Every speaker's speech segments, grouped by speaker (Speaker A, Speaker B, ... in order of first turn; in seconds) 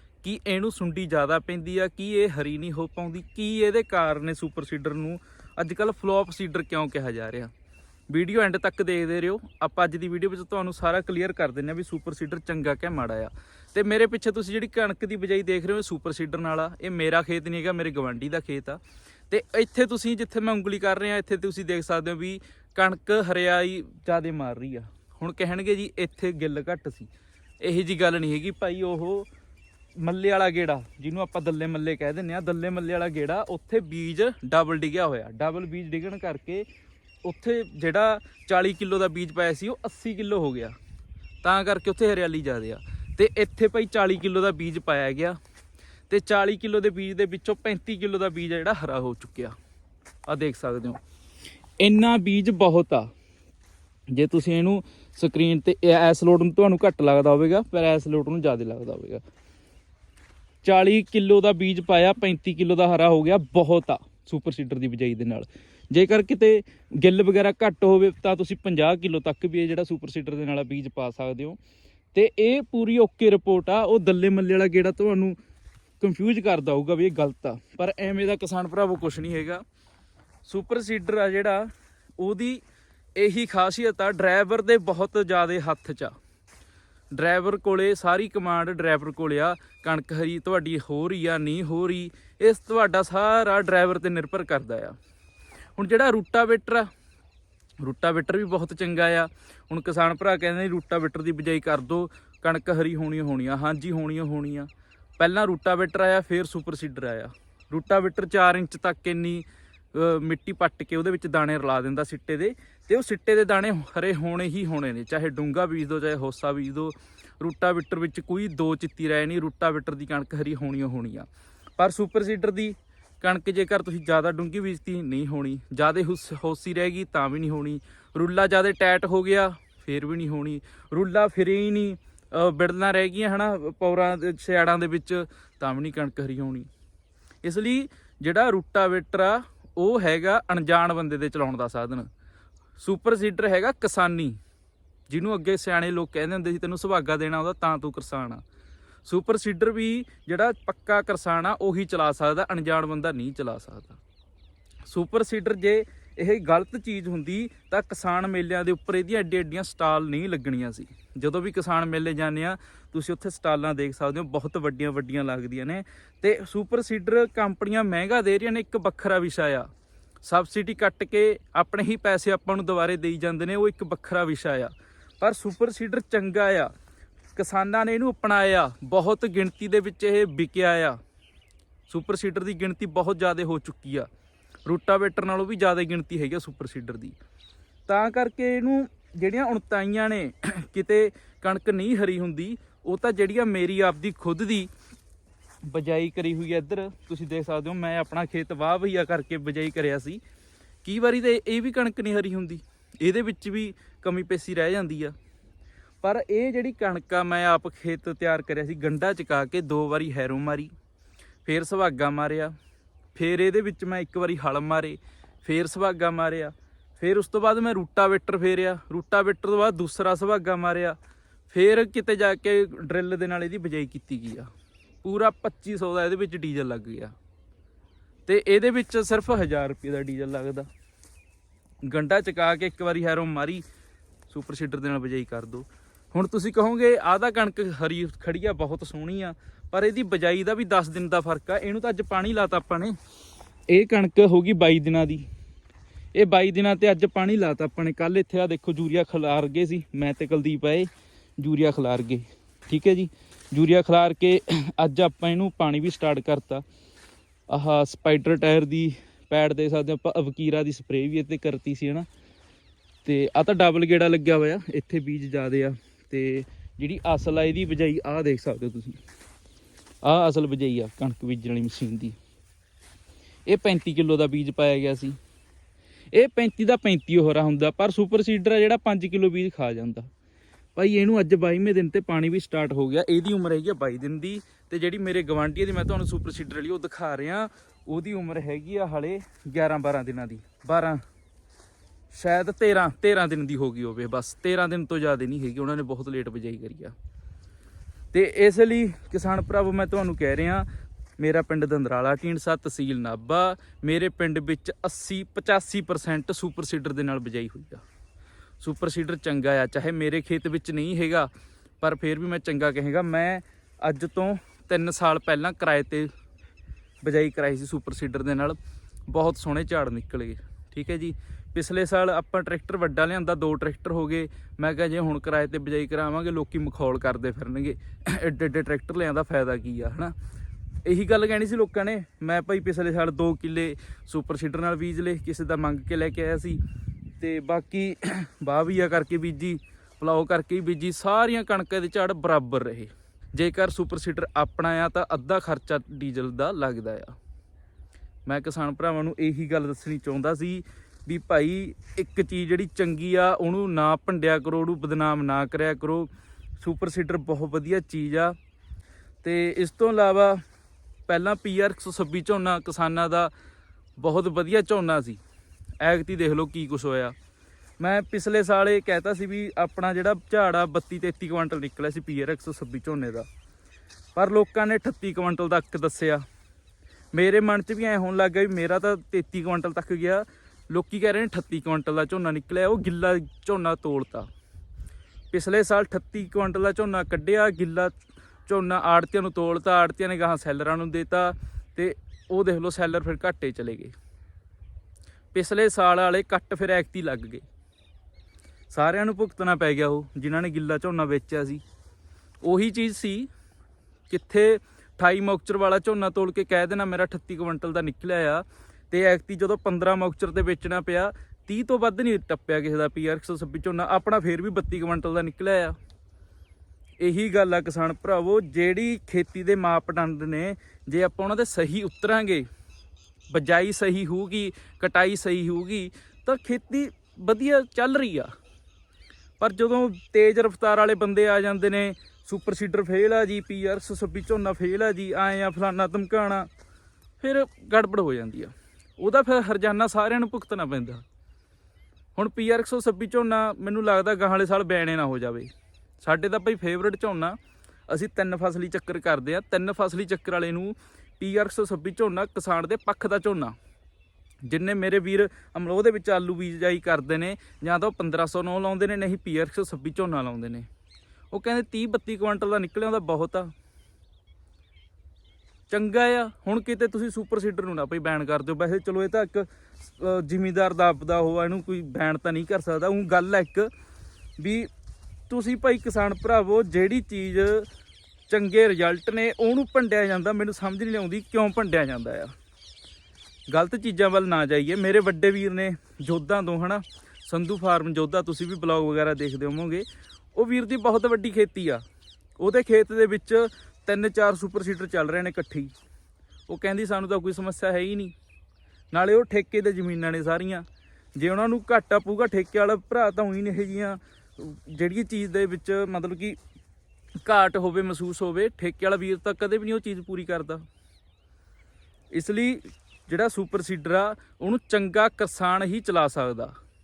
Speaker A: 0.2-7.5, 8.1-27.1, 27.6-29.3, 30.0-36.7, 37.2-40.8, 41.4-45.4, 46.1-49.5, 50.3-51.0, 51.8-53.1, 54.1-59.2, 60.6-71.6, 72.1-75.4, 76.0-79.6, 80.5-82.6, 83.2-86.1, 87.2-95.0, 95.8-96.9, 97.8-136.7, 137.4-142.1, 142.8-144.4, 145.1-148.4, 149.1-154.0, 154.9-169.7, 170.2-176.7, 177.4-181.0, 181.9-184.1, 184.7-187.2, 187.9-194.7, 195.7-200.2, 200.8-205.2, 206.0-210.7, 211.5-212.6, 213.2-221.0, 221.5-224.5, 225.0-227.1, 228.3-230.7, 231.8-233.6, 234.3-242.9, 243.7-245.2, 246.2-256.6, 257.5-262.1, 263.1-269.0, 270.0-272.2, 273.5-275.2, 276.1-280.1, 280.8-291.0, 292.1-296.9, 298.1-300.7, 301.2-307.8, 308.6-311.3, 311.8-316.1, 317.0-330.1, 330.9-336.6, 337.2-347.1, 348.3-358.4, 359.2-360.4, 361.1-363.3, 364.0-365.2, 365.8-367.1, 367.8-373.3, 374.2-376.2, 377.1-384.3, 385.3-387.9, 388.5-393.9, 395.3-397.4, 398.7-401.6, 402.4-403.3, 404.1-415.8, 417.0-422.5, 423.3-428.3, 429.4-436.5, 437.2-441.0, 442.2-445.5, 446.0-447.4, 447.9-453.6, 454.5-460.7, 461.3-463.5, 465.7-473.7, 474.4-474.7, 475.3-477.7, 478.3-482.3, 483.5-491.8, 492.4-495.7, 496.5-498.1, 498.9-506.4, 507.2-510.6, 512.1-516.5